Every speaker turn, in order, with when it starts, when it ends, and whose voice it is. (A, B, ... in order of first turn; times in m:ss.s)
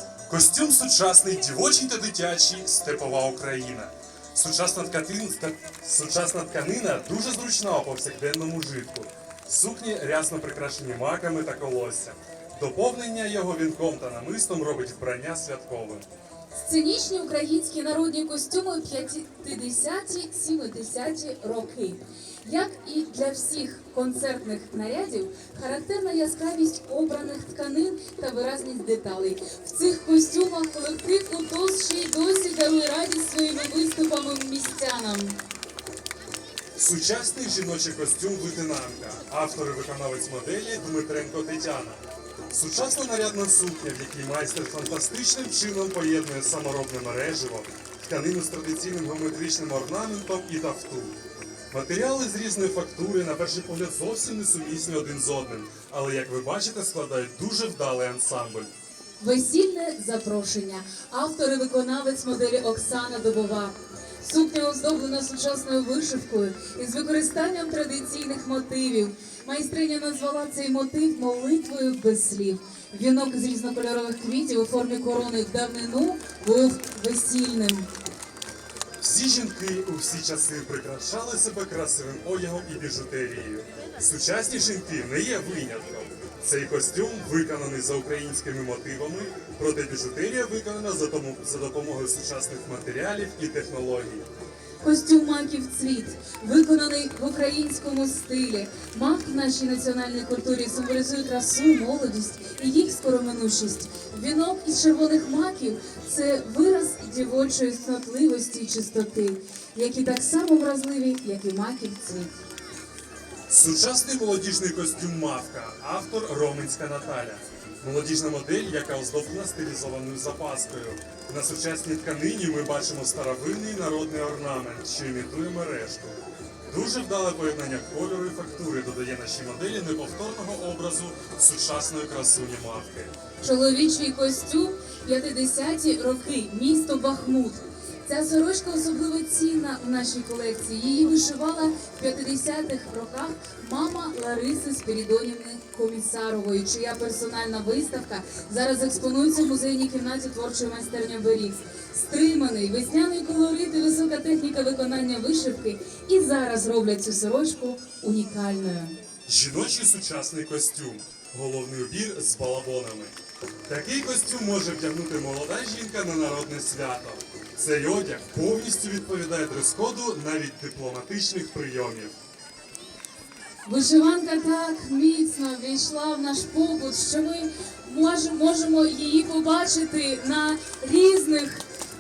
0:00.3-0:16.1 A
0:16.5-0:35.4 B
0:36.8-0:51.2 A
0:51.7-0:58.7 A
0:59.2-1:17.9 B
1:19.0-1:34.3 A
1:34.8-1:52.3 B
1:53.5-2:13.1 A
2:13.4-2:39.0 B
2:39.3-2:43.2 A
2:43.7-2:52.2 A
2:53.7-3:01.6 B